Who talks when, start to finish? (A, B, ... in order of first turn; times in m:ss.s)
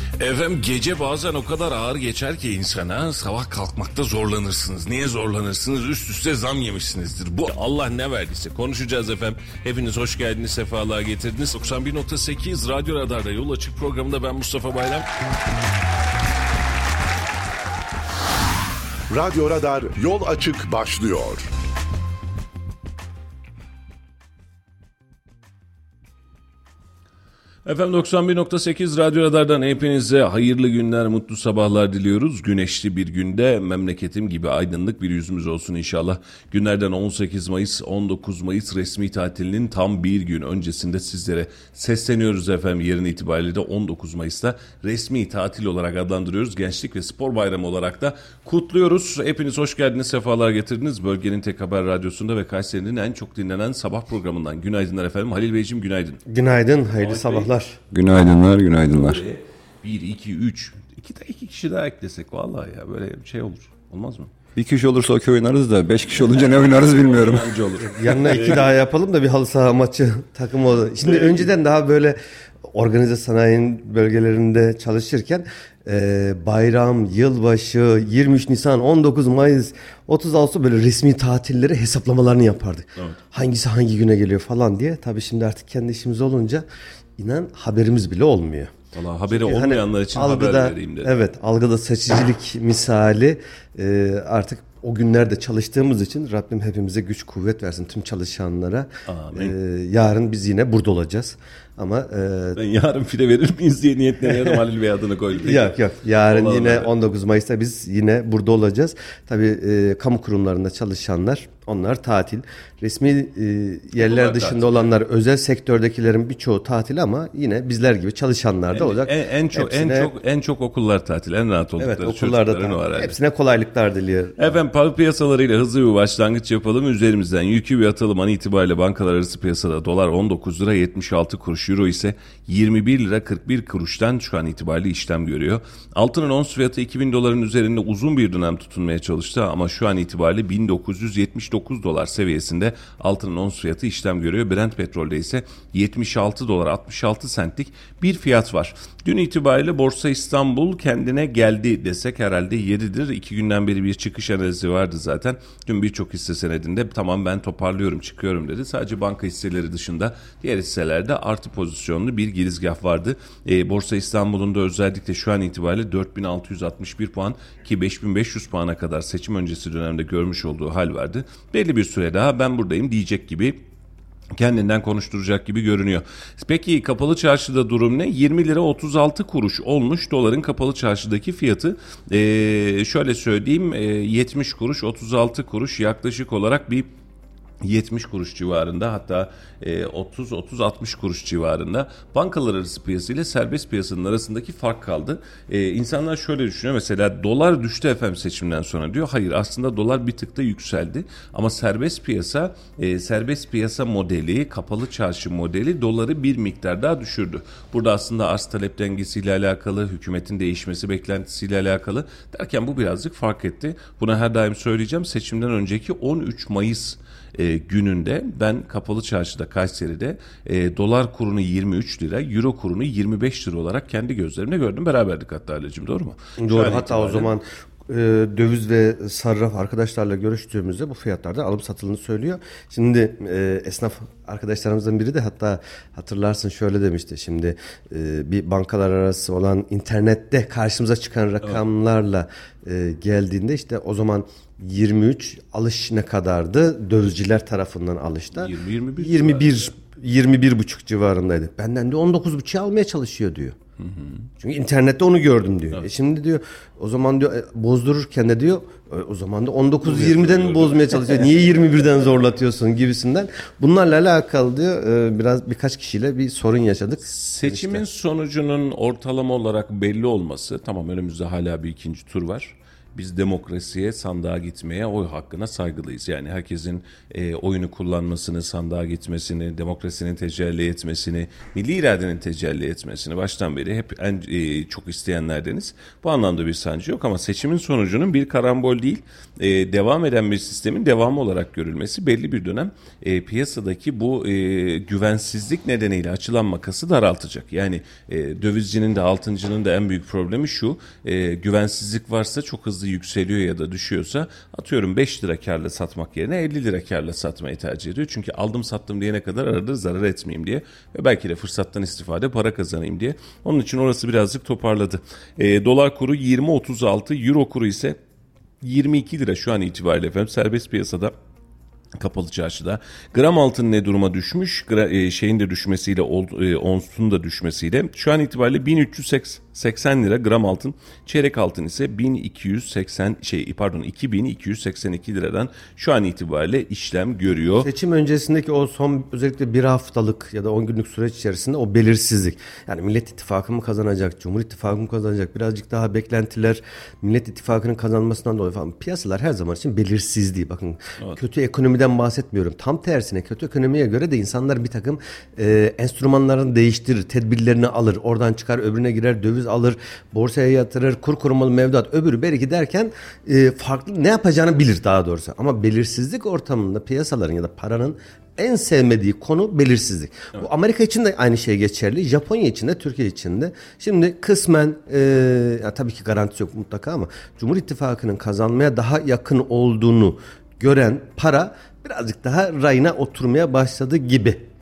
0:00.2-0:15.1 A
0:19.1-0:21.5 B
0:27.6-0:56.2 A
0:56.3-0:57.8 C
0:57.0-0:57.5 A
0:57.9-0:59.2 D
0:58.9-1:04.3 A
1:04.5-1:07.5 D
1:06.4-1:08.7 A
1:07.8-1:26.6 C
1:11.0-1:11.5 A
1:27.2-1:28.7 C
1:28.9-1:31.1 A
1:29.3-1:42.6 C
1:39.1-1:39.5 A
1:42.6-1:46.9 A
1:45.3-2:00.1 C
1:54.0-1:54.9 A
1:58.7-2:03.2 A
2:01.8-2:04.6 C
2:04.4-2:53.6 A
2:54.3-3:06.9 A
3:07.6-3:47.3 A
3:46.4-4:13.6 C
4:08.4-4:09.7 A
4:13.8-4:14.2 A
4:14.4-4:27.8 C
4:19.8-4:21.4 A
4:27.0-5:18.0 A
5:18.6-5:21.1 A
5:22.0-5:37.7 A
5:37.6-6:24.4 C